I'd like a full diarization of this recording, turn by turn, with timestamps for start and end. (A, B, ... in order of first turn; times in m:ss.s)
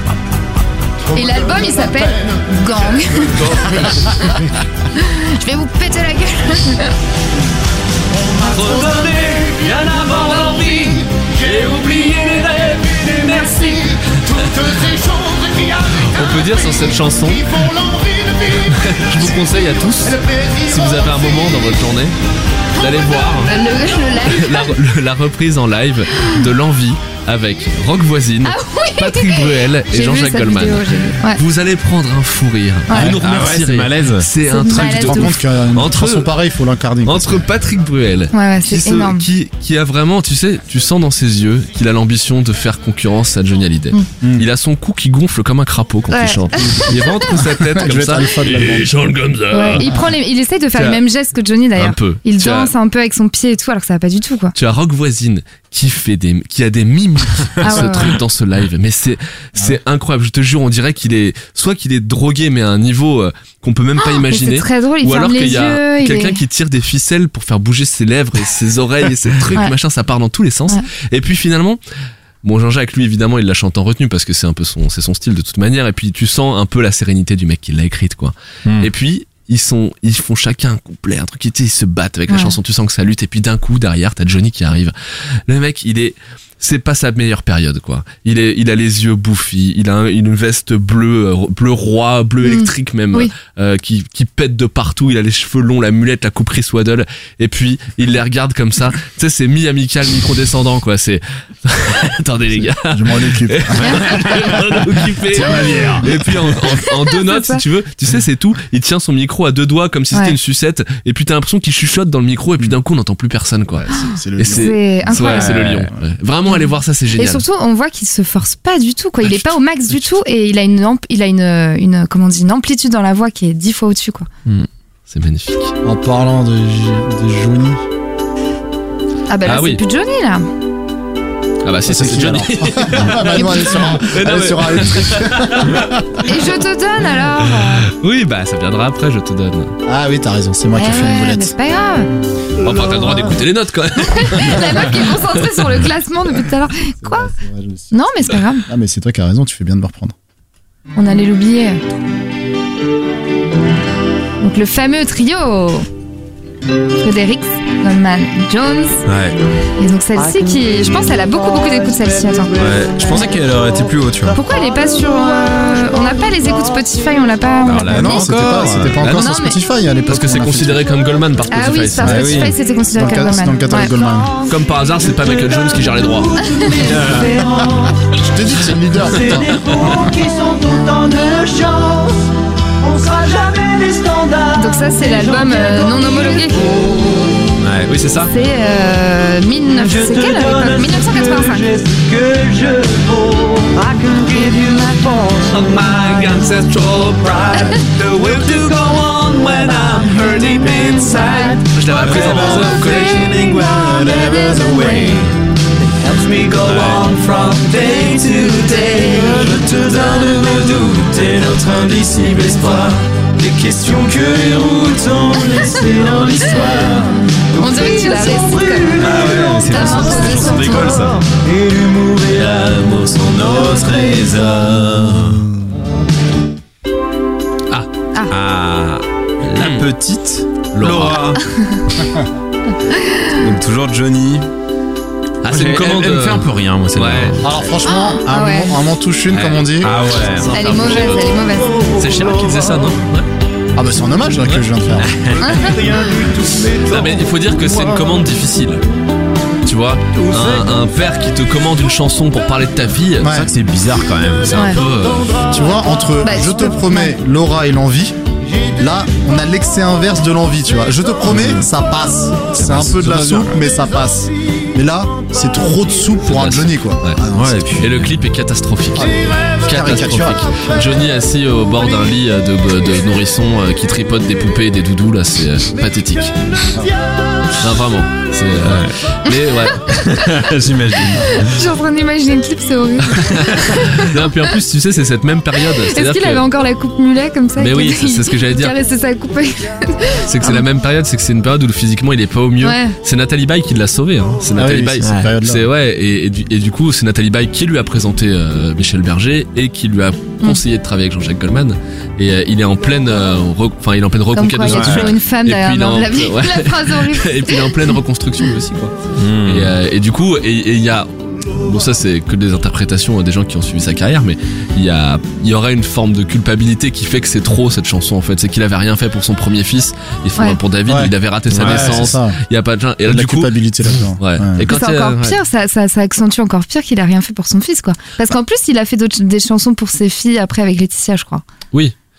0:01.1-0:06.9 A
0:03.4-0:03.9 B
0:08.3-0:22.2 B
0:08.6-0:09.1 C
0:22.8-0:23.5 B
0:23.4-0:24.8 A
0:24.2-0:36.3 B
0:28.4-0:31.4 A
0:32.9-0:33.2 A
0:32.9-0:34.3 D
0:34.5-0:35.4 A
0:34.7-0:37.5 E
0:37.0-0:50.0 B
0:38.3-0:39.3 A
0:44.2-0:44.5 E
0:46.1-0:47.3 A
0:46.6-0:48.9 E
0:49.5-0:54.6 A
0:50.8-0:51.0 B
0:51.8-0:52.7 B
0:54.6-1:11.8 B
0:57.6-0:58.2 A
1:04.0-1:06.4 A
1:12.4-1:57.4 B
1:22.3-1:22.6 A
1:32.4-1:33.3 A
1:42.7-1:44.2 E
1:43.9-1:44.6 D
1:45.3-1:46.7 D
1:46.8-1:47.6 A
1:53.7-1:56.0 E
1:54.0-1:55.5 A
1:55.3-1:55.9 D
1:56.5-2:04.3 A
2:05.1-2:05.7 B
2:05.8-2:07.8 E
2:09.3-2:10.5 A
2:09.4-2:09.8 B
2:11.6-2:15.9 B
2:11.8-2:16.2 E
2:13.3-2:13.8 A
2:16.2-2:17.9 A
2:17.8-2:19.8 B
2:19.9-2:21.5 E
2:20.8-2:22.1 A
2:22.6-2:25.6 B
2:24.0-2:27.3 A
2:27.0-2:30.2 E
2:27.9-2:28.7 A
2:31.0-2:31.8 A
2:34.4-2:35.9 A
2:37.0-2:39.0 A
2:39.1-2:39.4 D
2:39.8-2:42.6 A
2:40.2-2:43.3 C
2:42.6-2:44.4 D
2:44.3-2:48.3 A
2:46.2-2:46.6 C
2:47.6-2:49.1 D
2:47.9-2:50.8 E
2:49.0-2:49.3 B
2:49.0-2:49.6 A
2:50.1-2:52.4 B
2:51.5-2:54.1 A
2:52.0-2:52.4 E
2:52.0-2:52.6 D
2:52.9-2:54.3 E
2:54.5-2:56.4 B
2:55.1-2:58.1 C
2:56.5-2:56.8 A
2:56.8-2:57.3 D
2:58.2-2:59.5 E
2:59.0-3:02.2 C
3:02.8-3:07.6 C
3:04.6-3:06.7 A
3:07.6-3:07.9 D
3:07.8-3:08.3 B
3:08.2-3:11.7 A
3:09.7-3:44.5 C
3:16.1-3:16.8 B
3:17.5-3:17.8 A
3:18.4-3:18.7 B
3:21.2-3:21.6 A
3:21.7-3:23.3 B
3:21.9-3:25.2 D
3:22.5-3:25.2 A
3:26.6-3:27.2 D
3:31.4-3:32.6 D
3:36.5-3:41.1 A
3:39.0-3:41.2 D
3:42.3-3:45.5 D
3:48.3-3:51.4 D
3:49.6-3:49.9 B
3:50.7-3:51.4 B
3:51.6-3:51.8 A
3:52.9-3:53.4 A
3:53.4-3:54.5 D
3:55.4-3:57.4 B
3:55.5-3:57.5 D
3:57.4-4:00.0 E
3:57.8-3:58.8 A
3:59.3-4:03.3 B
3:59.8-4:00.7 D
4:00.5-4:01.8 A
4:01.5-4:02.9 C
4:03.8-4:05.2 E
4:05.0-4:06.3 D
4:05.4-4:05.8 A
4:05.5-4:07.1 C
4:06.9-4:08.8 B
4:09.6-4:13.4 B
4:10.2-4:10.8 C
4:13.2-4:13.5 E
4:13.3-4:14.7 D
4:14.5-4:15.5 B
4:14.5-4:14.8 A
4:15.5-4:18.2 E
4:16.2-4:17.2 A
4:18.8-4:27.7 E
4:21.3-4:21.7 D
4:22.6-4:23.6 D
4:26.2-4:27.2 B
4:27.3-4:28.2 D
4:27.8-4:36.4 B
4:29.0-4:30.6 E
4:37.6-4:39.9 B
4:38.6-4:39.0 D
4:39.9-4:41.6 D
4:41.2-4:44.3 A
4:43.2-4:46.4 B
4:45.8-4:50.7 A
4:47.6-4:48.8 B
4:50.3-5:25.4 B
4:52.6-4:53.0 A
4:54.6-4:55.7 E
4:55.0-4:55.3 D
5:04.3-5:08.0 A
5:04.6-5:05.1 D
5:09.2-5:09.8 D
5:20.9-5:22.4 E
5:21.5-5:22.2 D
5:23.0-5:24.7 E
5:24.7-5:31.4 A